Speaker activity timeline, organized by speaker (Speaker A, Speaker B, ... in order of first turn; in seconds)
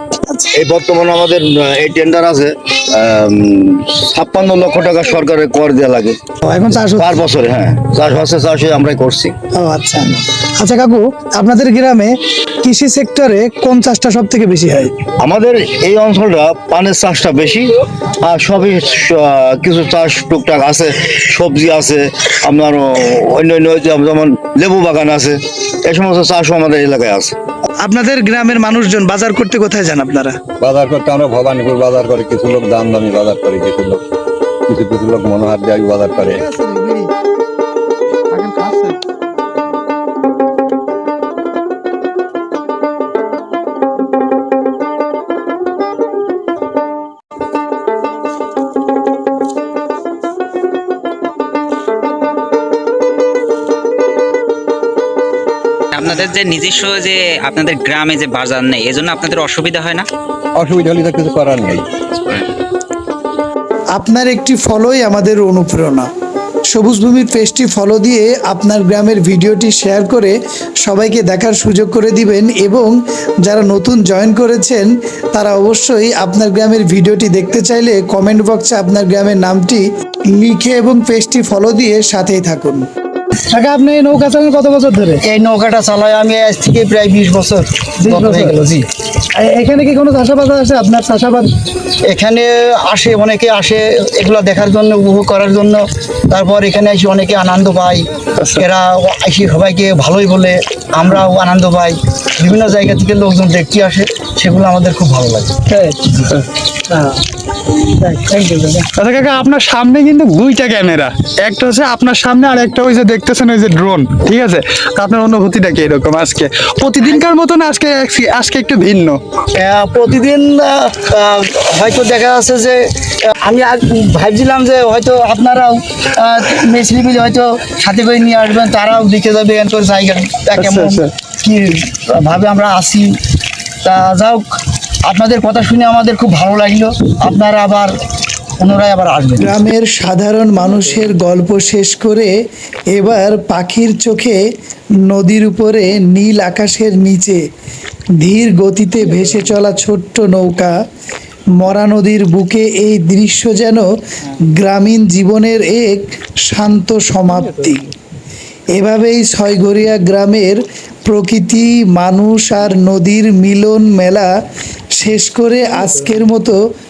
Speaker A: 0.3-0.6, 6.4-7.2, 9.5-14.9, 27.8-30.4, 36.6-37.0, 64.0-66.1, 66.7-82.9, 83.5-85.2, 88.0-88.8, 89.4-91.5, 108.1-108.6, 139.4-142.3, 142.9-144.4, 145.1-147.4, 148.2-150.7, 151.6-157.9, 158.7-164.3, 164.9-166.6
Speaker B: 0.5-6.2, 6.8-9.3, 15.2-27.3
Speaker C: 30.6-34.0, 34.7-36.5, 60.5-62.4
Speaker D: 55.9-60.0
Speaker E: 85.2-88.7, 92.0-105.5, 119.5-133.1, 133.8-134.4, 135.0-137.9, 138.6-139.6
Speaker F: 105.7-107.2, 108.1-119.2, 130.6-131.1